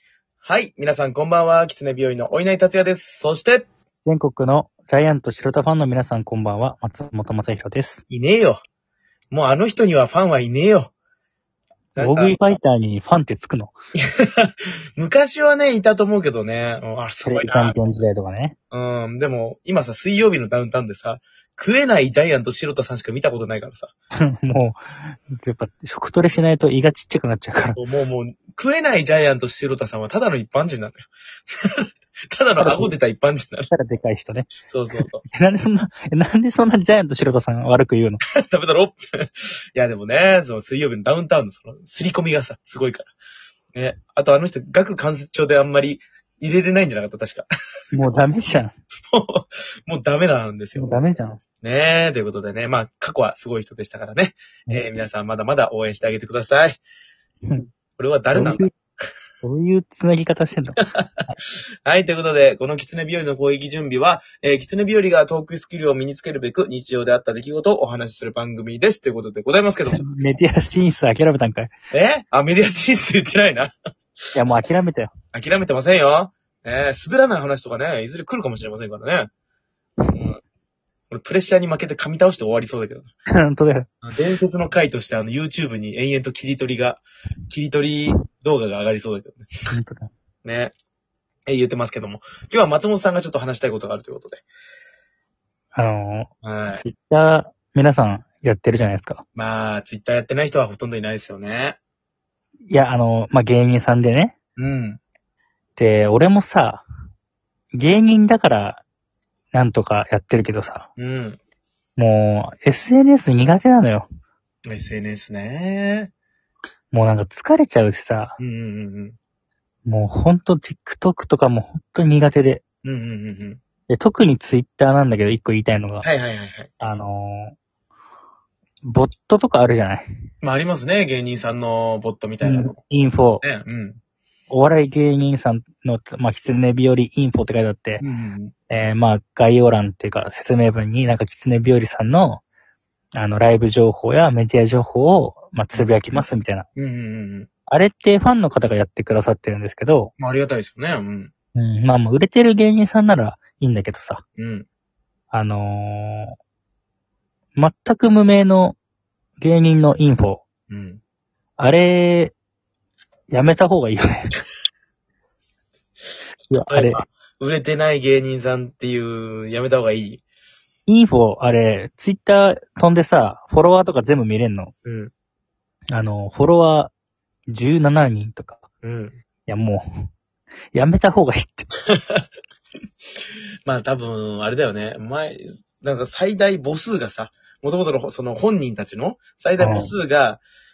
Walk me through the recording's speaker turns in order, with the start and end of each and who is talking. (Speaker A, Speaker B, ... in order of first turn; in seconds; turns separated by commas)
Speaker A: 0.4-3.7, Speaker B: 4.0-8.0, Speaker A: 8.1-8.6, Speaker A: 9.3-10.9, Speaker A: 12.0-12.6, Speaker B: 12.0-13.7, Speaker A: 14.2-17.8, Speaker B: 17.2-18.6, Speaker A: 18.7-23.9, Speaker B: 24.3-27.8, Speaker A: 27.8-31.8, Speaker A: 32.3-33.7, Speaker B: 32.6-32.9, Speaker B: 33.7-38.2, Speaker A: 34.7-35.2, Speaker A: 38.4-43.1, Speaker A: 43.7-47.5, Speaker B: 47.9-48.7, Speaker A: 49.0-51.0, Speaker B: 50.8-51.4, Speaker A: 51.6-56.8, Speaker A: 58.0-58.7, Speaker B: 58.3-58.7, Speaker B: 59.4-61.3, Speaker A: 60.8-61.1, Speaker A: 61.9-70.0, Speaker B: 69.9-71.7, Speaker A: 71.9-73.8, Speaker B: 74.3-75.1, Speaker A: 75.3-79.3, Speaker A: 80.1-80.4, Speaker A: 81.1-83.1, Speaker B: 83.4-83.9, Speaker A: 84.0-89.5, Speaker B: 89.7-90.1, Speaker A: 90.4-90.7, Speaker A: 91.5-94.5, Speaker B: 95.8-99.2, Speaker A: 96.4-96.8, Speaker A: 99.3-101.8, Speaker B: 102.7-104.3, Speaker A: 104.6-105.0, Speaker B: 105.8-106.9, Speaker B: 107.7-108.8, Speaker B: 109.5-110.9, Speaker A: 111.0-111.4, Speaker B: 112.0-114.1, Speaker A: 114.7-116.1, Speaker B: 116.9-118.4, Speaker A: 118.4-119.2, Speaker B: 119.9-122.6, Speaker A: 122.8-123.6, Speaker B: 123.9-126.1, Speaker A: 126.0-126.7, Speaker B: 126.8-127.6, Speaker B: 128.8-130.3, Speaker A: 130.4-132.8, Speaker B: 132.4-133.4, Speaker A: 133.4-134.0, Speaker B: 134.5-138.0, Speaker A: 138.0-138.5, Speaker B: 138.7-142.4, Speaker B: 143.1-146.7, Speaker A: 145.7-146.2, Speaker A: 146.8-147.5, Speaker B: 147.7-150.1, Speaker A: 150.2-151.3, Speaker B: 151.6-154.2, Speaker A: 154.4-154.7, Speaker B: 155.3-156.3, Speaker B: 157.6-158.8, Speaker B: 159.4-160.4, Speaker A: 160.7-161.0, Speaker B: 161.6-162.3, Speaker B: 163.3-164.3, Speaker B: 166.5-167.0, Speaker A: 166.7-170.2, Speaker B: 170.9-174.7, Speaker A: 174.8-175.1, Speaker B: 175.9-176.9, Speaker B: 177.5-178.6, Speaker A: 178.8-179.2, Speaker B: 179.5-180.1, Speaker B: 180.7-181.7, Speaker A: 181.9-182.2, Speaker A: 183.7-190.4, Speaker B: 189.6-189.9